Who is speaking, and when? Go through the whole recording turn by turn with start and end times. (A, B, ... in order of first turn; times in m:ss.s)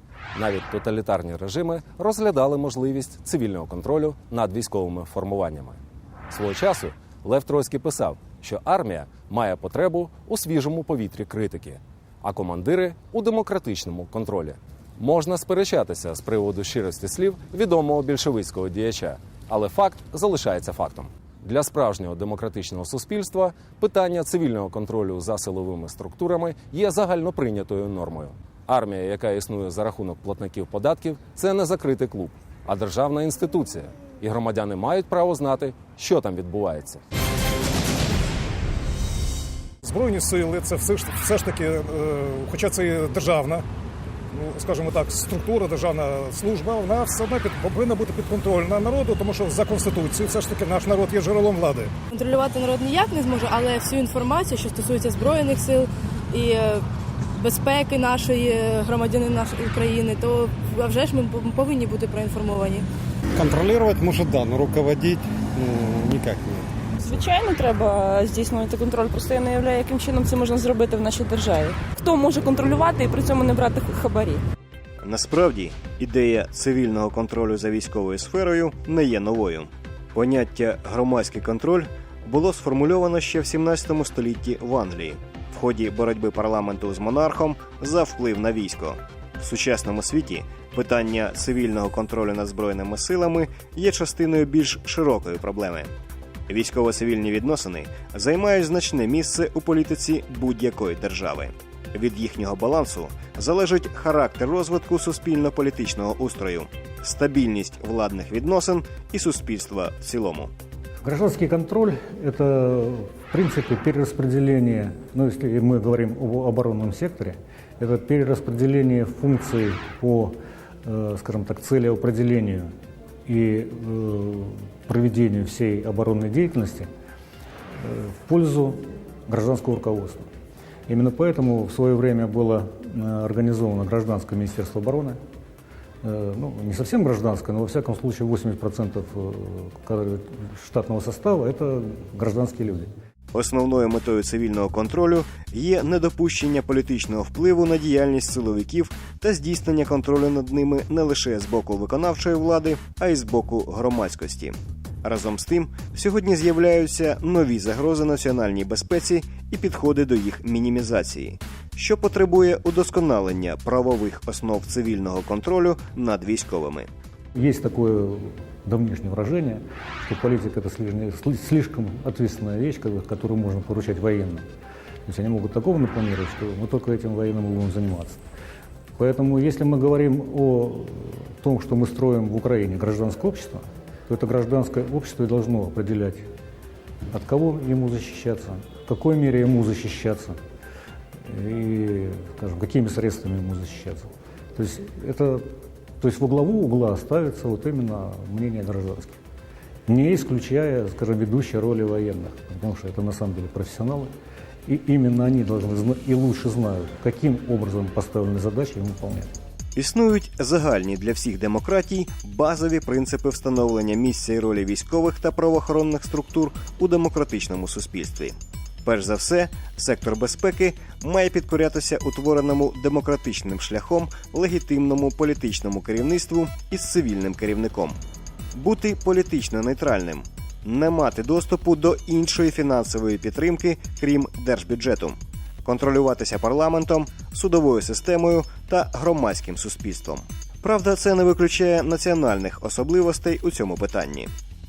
0:00.3-0:37.0 A
0:39.8-0:43.6 B
0:44.3-0:51.9 B
0:52.1-0:56.8 C
0:57.4-1:02.8 C
1:03.4-1:06.6 D
1:07.0-1:14.4 E
1:15.0-1:35.9 F
1:36.5-1:50.5 F
1:51.0-2:02.7 G
2:03.3-2:06.9 G
2:07.8-2:10.3 G
2:10.9-2:15.2 G
2:16.0-2:22.9 G
2:23.3-2:46.9 F
2:47.3-2:54.5 G
2:55.1-2:58.2 G
2:59.0-3:06.3 G
3:07.1-3:10.4 G
3:11.2-3:19.2 G
3:19.9-3:24.1 G
3:24.7-3:29.3 G
3:29.8-3:48.0 F
3:48.5-4:04.3 F